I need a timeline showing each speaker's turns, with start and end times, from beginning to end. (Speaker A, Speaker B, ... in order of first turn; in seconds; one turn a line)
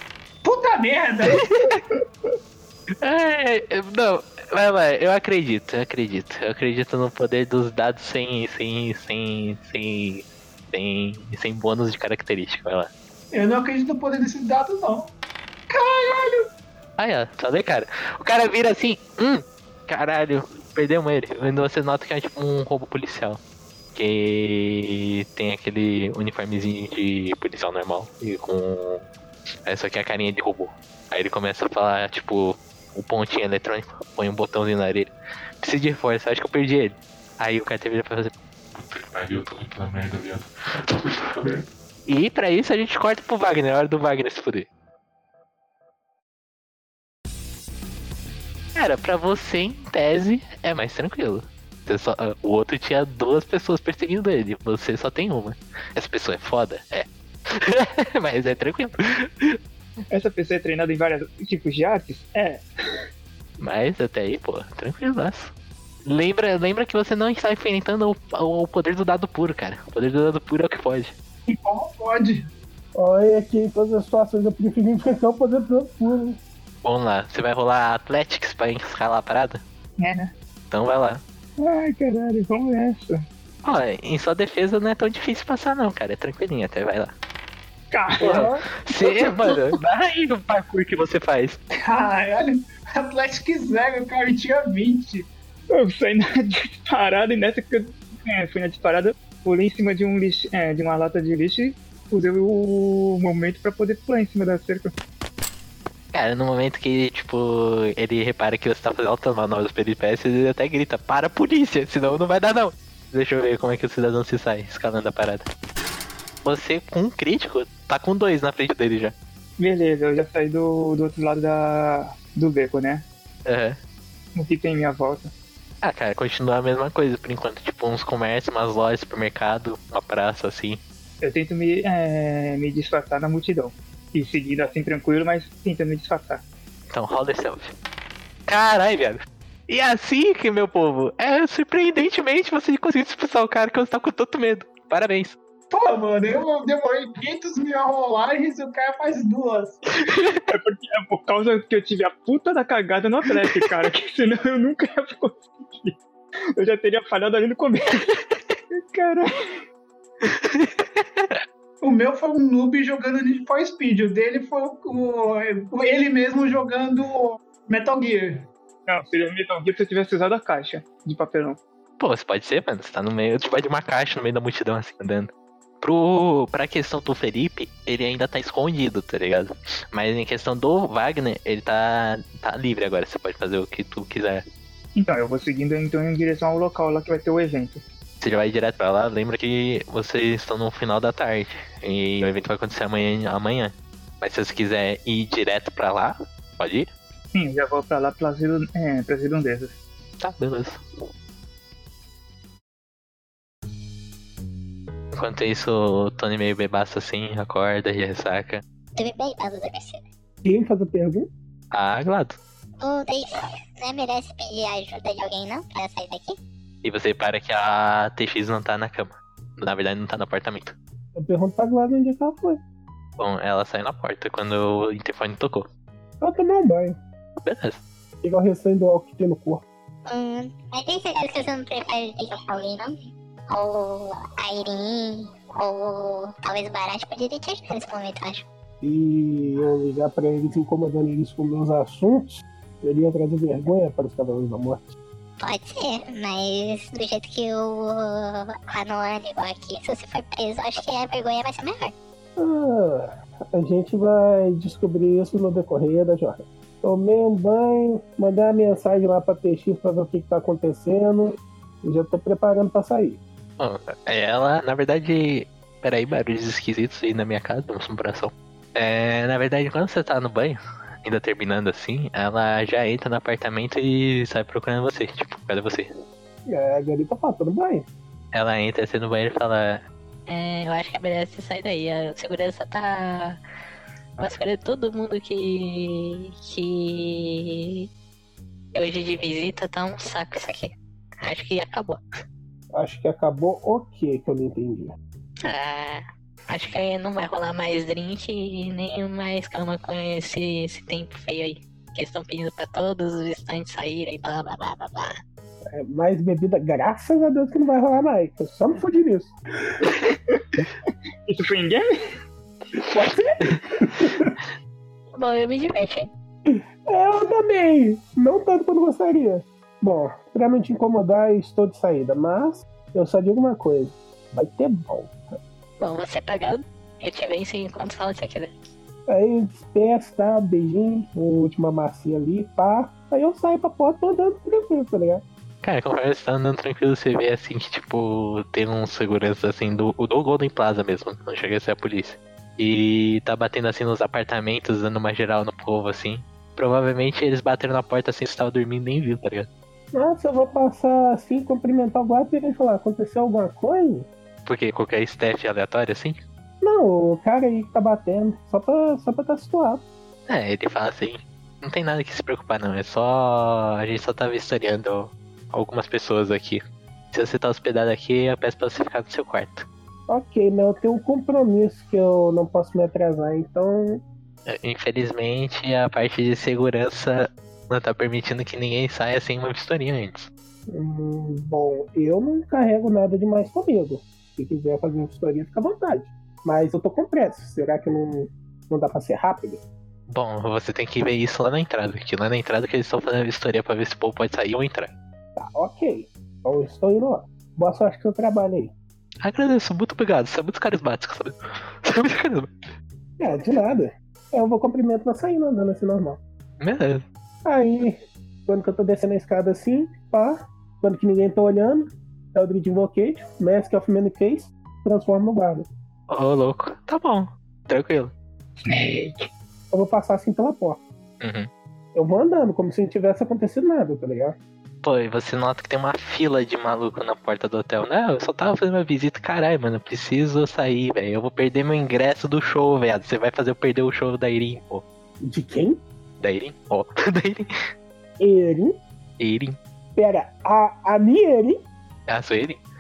Speaker A: 0.4-1.5
Speaker B: 1.3-1.8
Speaker B: 3.0-12.9
Speaker A: 13.3-15.1
Speaker A: 15.7-16.5
Speaker B: 17.0-23.4
Speaker B: 23.9-29.1
Speaker B: 29.7-38.3
Speaker C: 38.7-41.7
Speaker B: 42.1-44.7
Speaker B: 48.8-59.6
Speaker D: 60.1-62.7
Speaker B: 63.6-65.5
Speaker B: 66.0-71.1
Speaker A: 71.5-72.5
Speaker E: 73.0-76.4
Speaker B: 76.8-79.6
Speaker D: 80.0-80.3
Speaker B: 80.7-81.2
Speaker D: 81.6-83.2
Speaker B: 83.6-87.1
Speaker D: 87.9-88.5
Speaker E: 88.2-88.6
Speaker B: 88.2-91.6
Speaker A: 91.8-95.3
Speaker D: 95.7-104.9
Speaker B: 106.1-115.5
Speaker B: 116.4-119.2
Speaker D: 119.6-123.1
Speaker B: 123.5-123.8
Speaker D: 124.4-125.3
Speaker B: 125.8-130.8
Speaker D: 131.2-136.4
Speaker B: 136.9-137.7
Speaker B: 138.5-145.4
Speaker A: 145.7-149.8
Speaker B: 150.0-150.4
Speaker D: 150.5-156.0
Speaker D: 156.6-158.2
Speaker D: 158.8-159.6
Speaker B: 160.2-161.4
Speaker A: 161.8-168.5
Speaker D: 168.9-171.6
Speaker B: 172.0-184.4
Speaker D: 185.0-187.8
Speaker B: 188.2-196.9
Speaker D: 197.3-199.8
Speaker B: 200.2-200.8
Speaker B: 205.1-208.6
Speaker F: 209.0-210.0
Speaker E: 210.4-211.3
Speaker B: 211.7-212.4
Speaker F: 212.8-216.4
Speaker B: 216.8-220.8
Speaker E: 221.2-222.6
Speaker B: 223.2-225.7
Speaker E: 226.2-227.0
Speaker B: 227.4-227.8
Speaker E: 228.2-229.6
Speaker F: 230.1-232.9
Speaker F: 233.5-238.5
Speaker E: 238.8-244.9
Speaker F: 245.4-251.9
Speaker E: 252.4-263.2
Speaker B: 263.6-275.9
Speaker E: 276.5-277.9
Speaker B: 278.3-279.8
Speaker G: 280.3-283.4
Speaker G: 284.2-287.9
Speaker G: 288.7-292.0
Speaker E: 292.7-294.9
Speaker G: 295.4-305.2
Speaker E: 305.7-309.8
Speaker D: 310.3-311.9
Speaker E: 312.8-314.3
Speaker G: 315.2-316.1
Speaker E: 316.5-325.3
Speaker G: 325.8-328.6
Speaker E: 329.1-335.2
Speaker B: 335.6-349.5
Speaker E: 349.9-354.1
Speaker B: 354.5-356.2
Speaker E: 356.6-359.8
Speaker B: 360.3-369.7
Speaker E: 370.1-374.0
Speaker B: 374.5-380.3
Speaker E: 380.7-389.6
Speaker B: 390.1-394.9
Speaker E: 395.4-398.7
Speaker B: 399.2-402.6
Speaker E: 403.2-406.2
Speaker B: 406.6-407.0
Speaker E: 407.4-415.7
Speaker B: 416.1-418.1
Speaker D: 418.6-419.3
Speaker E: 419.7-420.8
Speaker B: 421.2-421.5
Speaker E: 421.9-424.4
Speaker B: 424.8-434.8
Speaker E: 435.2-435.8
Speaker B: 436.2-437.5
Speaker E: 438.2-438.8
Speaker B: 439.2-439.6
Speaker E: 440.0-441.6
Speaker B: 442.1-442.6